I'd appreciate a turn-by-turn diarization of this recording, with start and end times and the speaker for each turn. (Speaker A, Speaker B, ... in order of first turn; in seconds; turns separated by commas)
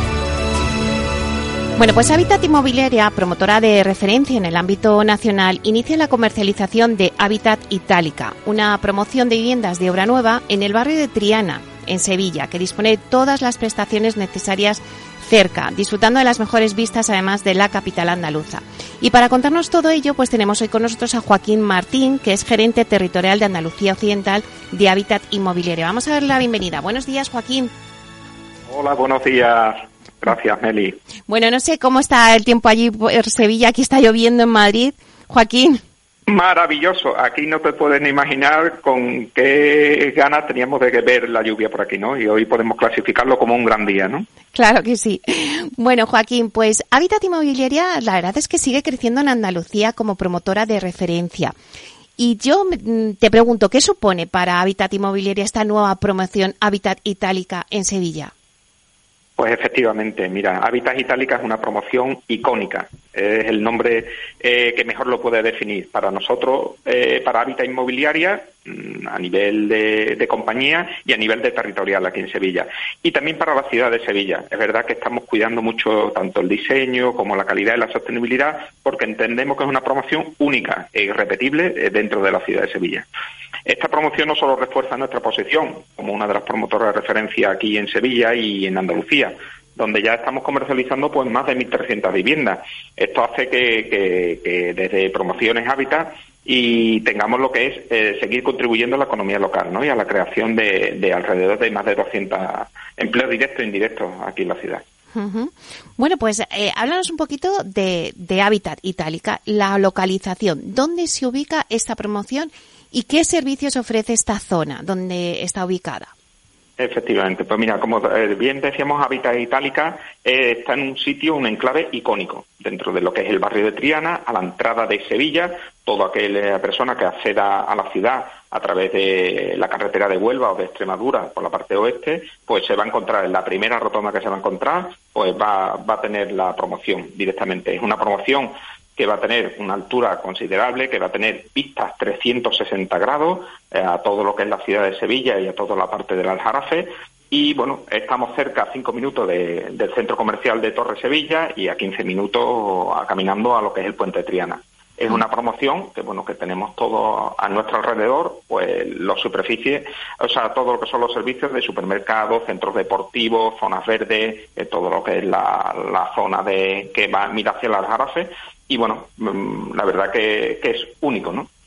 Speaker A: 1.8-27.7, Speaker B: 28.7-31.0, Speaker A: 31.3-35.8, Speaker B: 36.3-44.3, Speaker A: 44.5-51.5, Speaker A: 52.2-58.3, Speaker B: 59.4-83.1, Speaker B: 83.7-104.8, Speaker A: 105.1-116.1, Speaker B: 116.8-171.5